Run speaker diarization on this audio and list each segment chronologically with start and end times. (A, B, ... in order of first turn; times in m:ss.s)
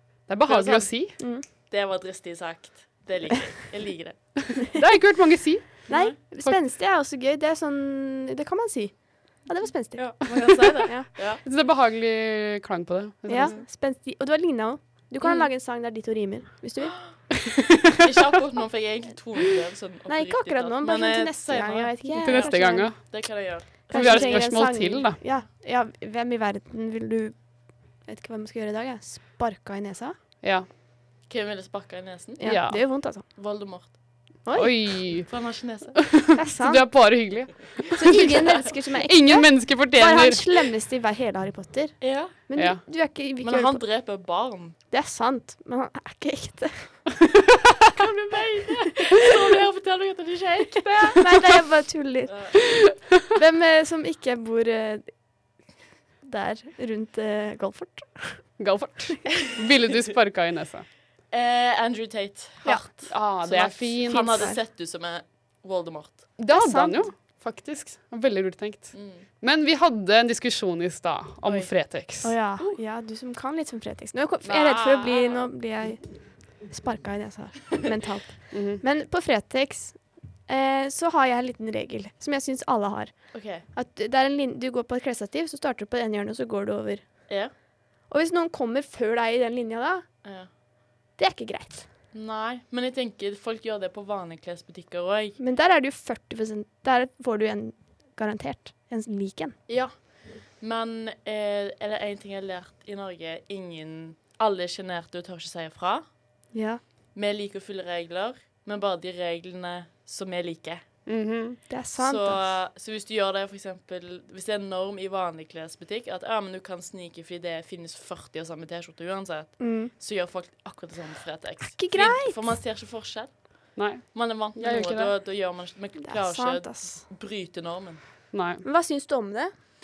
0:00.3-0:01.2 A
0:00.5-0:04.6 B
0:01.2-0:01.4 C
0:04.6-0:06.6 A
0:05.9-0:11.1 C
0:05.9-0:06.2 B
0:10.0-0:11.4 B
0:11.2-0:13.5 A
0:13.3-0:17.0 C
0:13.3-0:13.6 B
0:18.0-0:24.6 B
0:20.1-0:23.1 C
0:22.2-0:25.2 A
0:23.9-0:30.2 C
0:30.4-0:30.7 A
0:31.3-0:36.3 B
0:32.4-0:33.2 C
0:32.4-0:32.9 A
0:34.4-0:34.9 C
0:34.5-0:40.7 A
0:36.3-0:37.4 C
0:38.0-0:43.8 C
0:42.0-0:42.4 B
0:42.6-0:42.8 A
0:43.4-0:44.8 B
0:44.9-0:47.0 C
0:47.9-0:51.4 B
0:51.1-0:52.6 C
0:52.3-0:52.9 B
0:53.3-0:55.3 C
0:56.2-0:58.6 C
0:58.6-1:00.9 A
1:01.3-1:06.4 B
1:03.0-1:04.5 A
1:04.1-1:04.6 C
1:06.4-1:12.3 A
1:06.5-1:07.1 C
1:08.9-1:09.2 B
1:11.4-1:11.8 B
1:12.2-1:27.4 C
1:14.4-1:15.7 B
1:18.5-1:18.8 A
1:23.3-1:23.6 B
1:27.3-1:27.5 B
1:28.1-1:30.1 C
1:30.2-1:30.5 B
1:31.2-1:31.9 C
1:32.1-1:35.4 B
1:35.4-1:39.6 C
1:39.7-1:46.5 B
1:46.5-1:46.8 C
1:47.1-1:50.9 B
1:51.0-1:51.6 A
1:51.7-1:52.5 C
1:52.0-2:08.0 B
1:59.6-1:59.9 C
2:01.7-2:02.5 C
2:03.8-2:05.1 A
2:06.0-2:07.0 C
2:08.3-2:08.6 A
2:08.6-2:09.5 C